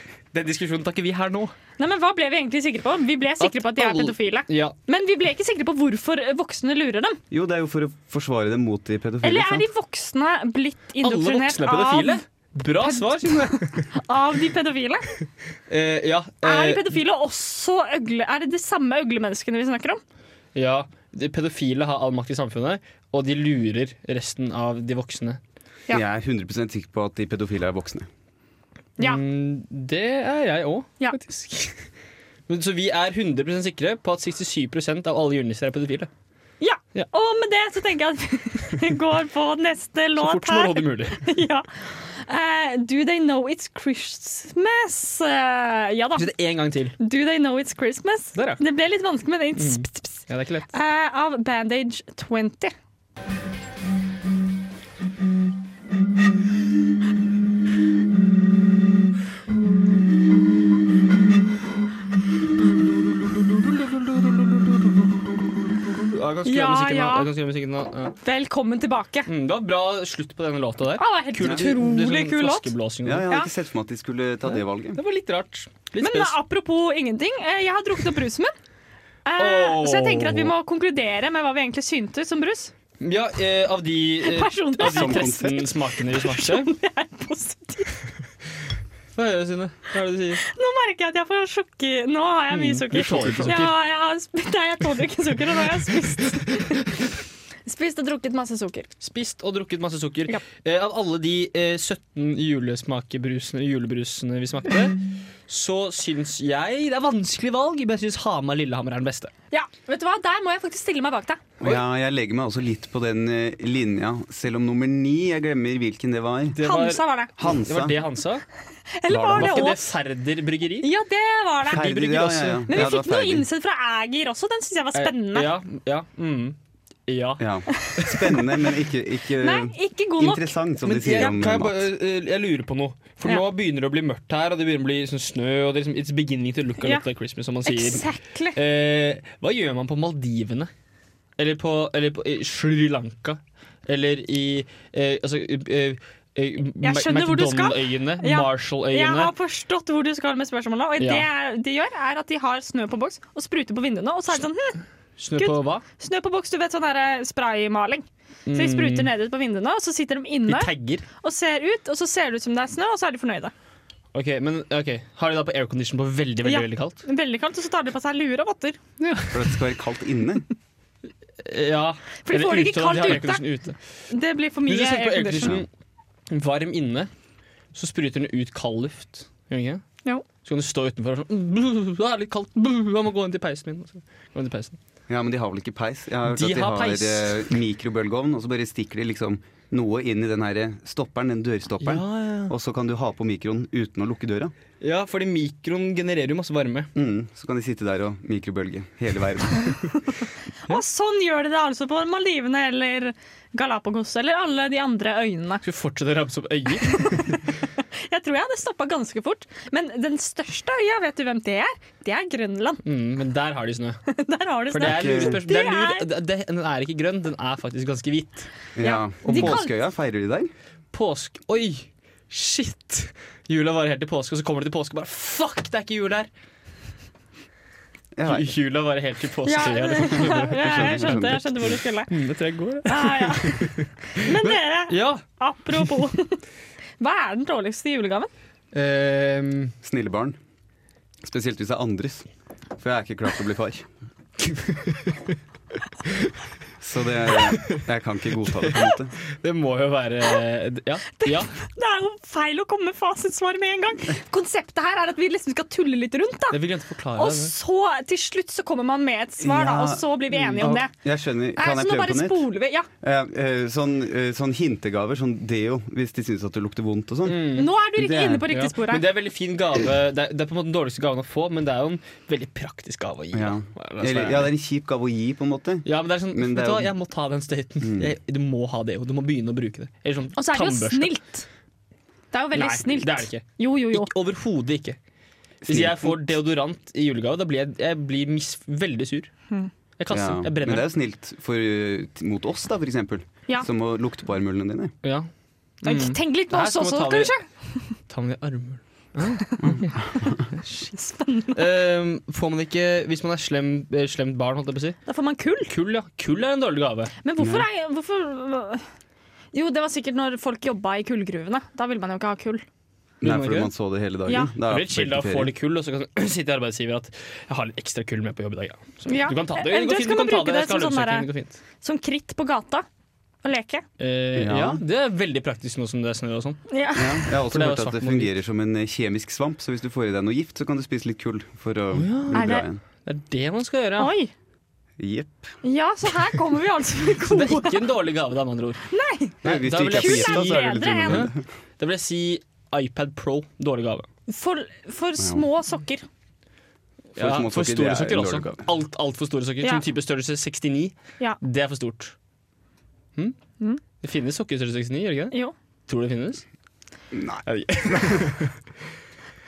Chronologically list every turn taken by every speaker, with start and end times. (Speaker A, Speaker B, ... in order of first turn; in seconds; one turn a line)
Speaker A: 0.3-1.5
Speaker B: 1.8-7.2
Speaker A: 3.4-4.7
Speaker C: 7.3-9.7
Speaker B: 9.2-12.2
Speaker A: 11.0-13.9
Speaker B: 12.8-15.1
Speaker A: 15.7-17.0
Speaker B: 16.4-20.0
Speaker A: 20.5-25.4
Speaker C: 25.9-28.1
Speaker A: 29.0-31.8
Speaker A: 32.5-36.1
Speaker B: 36.6-46.3
Speaker A: 40.1-41.2
Speaker A: 46.1-47.0
Speaker B: 47.0-50.2
Speaker A: 48.3-48.6
Speaker A: 49.6-50.7
Speaker B: 50.7-52.7
Speaker A: 63.3-68.2
Speaker B: 66.5-67.3
Speaker B: 68.2-69.3
Speaker A: 69.3-73.3
Speaker B: 71.0-72.7
Speaker C: 73.0-75.0
Speaker A: 74.5-76.4
Speaker B: 76.0-78.5
Speaker B: 79.2-82.7
Speaker A: 79.4-80.5
Speaker A: 83.0-86.7
Speaker B: 84.2-87.9
Speaker C: 84.8-85.7
Speaker A: 89.2-90.4
Speaker B: 90.4-96.9
Speaker A: 92.5-93.7
Speaker C: 93.1-93.6
Speaker B: 97.7-98.9
Speaker A: 99.0-109.3
Speaker B: 109.5-111.4
Speaker C: 111.6-116.6
Speaker A: 116.5-118.4
Speaker B: 116.6-117.3
Speaker C: 117.4-118.0
Speaker B: 119.0-119.9
Speaker C: 119.1-119.7
Speaker A: 119.3-120.9
Speaker B: 120.8-125.5
Speaker C: 121.7-123.5
Speaker A: 121.7-122.9
Speaker A: 124.9-127.4
Speaker C: 127.4-131.8
Speaker A: 128.0-128.3
Speaker B: 129.4-131.3
Speaker A: 130.8-140.7
Speaker B: 137.6-138.6
Speaker A: 141.4-149.3
Speaker B: 146.8-154.8
Speaker A: 151.0-151.2
Speaker A: 155.2-155.8
Speaker B: 155.4-160.7
Speaker A: 158.5-159.1
Speaker A: 160.5-161.1
Speaker B: 161.2-163.5
Speaker A: 164.1-167.0
Speaker B: 166.4-168.8
Speaker A: 169.0-169.5
Speaker C: 169.3-170.4
Speaker A: 171.4-173.8
Speaker B: 172.3-173.4
Speaker B: 174.1-175.6
Speaker A: 174.7-175.7
Speaker A: 176.3-177.1
Speaker A: 177.7-179.8
Speaker A: 180.4-184.8
Speaker C: 185.1-194.5
Speaker A: 186.3-187.5
Speaker A: 191.8-192.5
Speaker A: 194.8-196.9
Speaker C: 196.9-199.8
Speaker B: 200.7-205.6
Speaker A: 205.6-207.4
Speaker B: 206.9-212.8
Speaker A: 212.8-214.0
Speaker B: 214.1-216.1
Speaker A: 214.7-218.5
Speaker C: 214.8-215.4
Speaker C: 218.8-220.5
Speaker B: 218.8-219.7
Speaker A: 219.2-219.6
Speaker A: 220.9-226.3
Speaker C: 228.1-228.6
Speaker A: 228.2-235.2
Speaker B: 229.4-232.1
Speaker C: 230.3-231.8
Speaker B: 232.8-236.4
Speaker B: 237.0-238.3
Speaker A: 238.7-239.7
Speaker C: 239.8-240.4
Speaker C: 241.2-242.2
Speaker C: 242.8-243.9
Speaker A: 244.4-245.3
Speaker A: 246.1-246.3
Speaker C: 246.8-249.1
Speaker A: 247.4-247.8
Speaker A: 249.4-251.5
Speaker B: 251.2-256.6
Speaker A: 256.5-257.5
Speaker B: 257.1-260.9
Speaker C: 259.4-262.5
Speaker B: 261.6-262.9
Speaker C: 263.0-268.4
Speaker A: 267.2-267.7
Speaker B: 267.5-269.0
Speaker A: 268.5-274.5
Speaker C: 273.3-276.9
Speaker A: 275.9-281.1
Speaker C: 277.8-278.1
Speaker B: 280.4-281.4
Speaker B: 282.3-284.1
Speaker A: 282.5-285.0
Speaker C: 285.6-286.2
Speaker A: 285.7-289.3
Speaker A: 290.0-290.9
Speaker C: 290.1-294.9
Speaker A: 295.0-295.3
Speaker A: 295.8-297.3
Speaker B: 295.8-297.9
Speaker A: 298.1-299.9
Speaker B: 299.4-299.7
Speaker B: 300.7-301.6
Speaker A: 301.5-305.0
Speaker B: 305.1-305.7
Speaker A: 305.7-307.1
Speaker B: 307.2-308.8
Speaker C: 307.4-307.6
Speaker B: 309.5-312.6
Speaker C: 313.2-315.5
Speaker A: 313.2-313.7
Speaker A: 314.6-321.6
Speaker B: 319.1-321.3
Speaker B: 321.8-322.9
Speaker B: 323.4-323.8
Speaker A: 324.0-326.6
Speaker C: 324.3-324.8
Speaker B: 326.7-327.3
Speaker C: 326.9-332.8
Speaker A: 327.3-328.3
Speaker A: 331.9-334.1
Speaker B: 332.3-332.6
Speaker B: 334.0-334.3
Speaker C: 335.0-335.5
Speaker B: 335.6-337.8
Speaker A: 337.2-338.8
Speaker B: 338.9-339.4
Speaker C: 339.4-341.4
Speaker A: 339.4-344.1
Speaker B: 339.9-341.3
Speaker B: 344.3-346.0
Speaker A: 347.1-352.1
Speaker C: 347.1-348.6
Speaker A: 354.0-355.4
Speaker A: 355.9-356.4
Speaker C: 357.1-358.3
Speaker A: 357.4-358.5